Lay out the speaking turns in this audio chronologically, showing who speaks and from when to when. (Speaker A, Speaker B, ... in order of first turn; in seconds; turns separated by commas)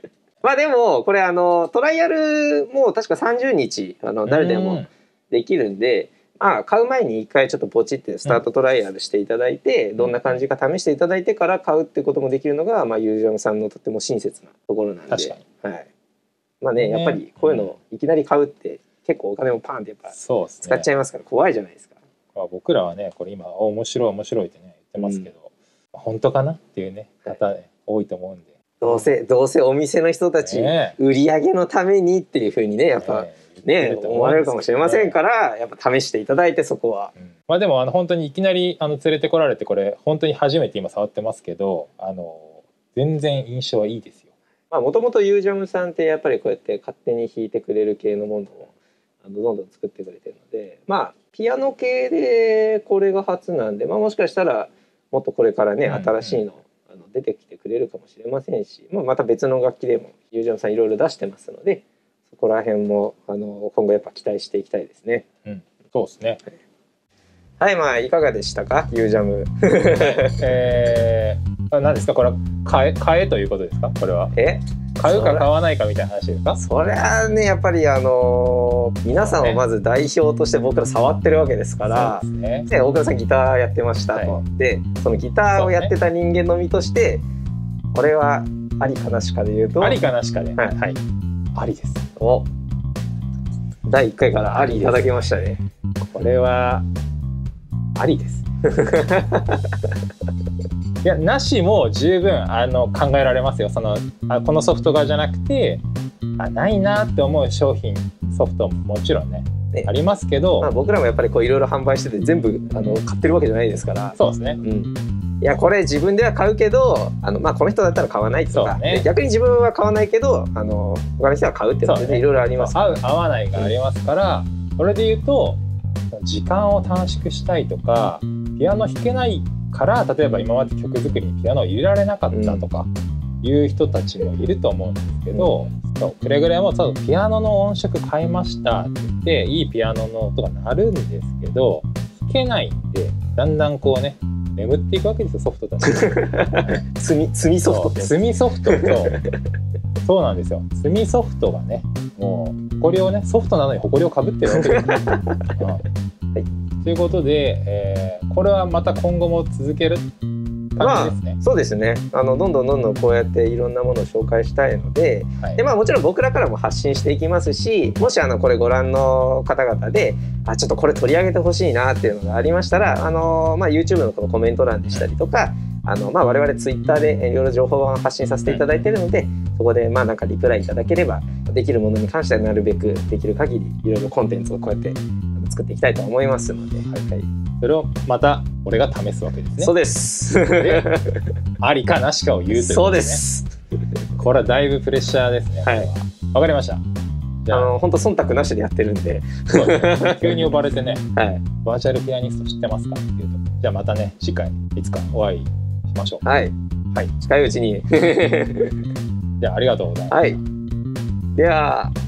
Speaker A: 0.4-15.9, Speaker B: 4.2-4.9, Speaker B: 10.0-10.4, Speaker B: 15.1-15.4, Speaker A: 16.6-21.9, Speaker B: 16.8-17.7, Speaker B: 20.1-20.9, Speaker B: 22.3-29.1, Speaker A: 25.0-25.3, Speaker A: 28.8-37.1, Speaker B: 30.4-31.0, Speaker B: 33.0-35.2, Speaker B: 37.2-44.3, Speaker A: 44.7-48.7, Speaker A: 49.2-65.3, Speaker B: 55.9-56.5, Speaker B: 65.4-66.4, Speaker A: 67.6-70.4, Speaker B: 70.0-74.3, Speaker A: 74.3-75.5, Speaker B: 75.0-76.6, Speaker A: 76.6-87.2, Speaker B: 79.2-79.6, Speaker B: 81.8-82.7, Speaker B: 84.1-84.4, Speaker B: 85.5-85.9, Speaker A: 87.9-90.0, Speaker B: 89.8-91.0, Speaker B: 91.5-92.1, Speaker A: 92.2-92.5, Speaker A: 93.9-95.6, Speaker B: 94.4-95.2, Speaker B: 96.0-96.8, Speaker B: 98.0-98.5, Speaker A: 98.6-100.0, Speaker B: 101.0-105.8, Speaker B: 106.4-110.7, Speaker A: 110.6-123.0, Speaker B: 114.2-114.6, Speaker B: 118.5-119.1, Speaker B: 121.8-125.6, Speaker B: 126.1-132.9, Speaker A: 132.3-132.7, Speaker B: 133.4-146.8, Speaker A: 135.3-135.6, Speaker A: 145.8-149.4, Speaker B: 147.7-149.2, Speaker B: 150.0-155.9, Speaker A: 154.5-155.5, Speaker B: 156.8-160.1, Speaker B: 160.8-161.4, Speaker A: 160.8-187.3, Speaker B: 165.4-165.7, Speaker B: 178.5-178.8, Speaker B: 186.9-189.8, Speaker A: 189.6-191.3, Speaker B: 190.5-190.9, Speaker B: 191.6-193.2, Speaker A: 192.5-193.6, Speaker B: 194.2-196.8, Speaker B: 197.4-197.9, Speaker A: 197.5-200.5, Speaker B: 199.5-206.2, Speaker A: 201.2-201.5, Speaker A: 206.2-206.5, Speaker A: 207.2-208.8, Speaker B: 209.4-210.4, Speaker A: 210.1-210.4, Speaker A: 211.4-211.9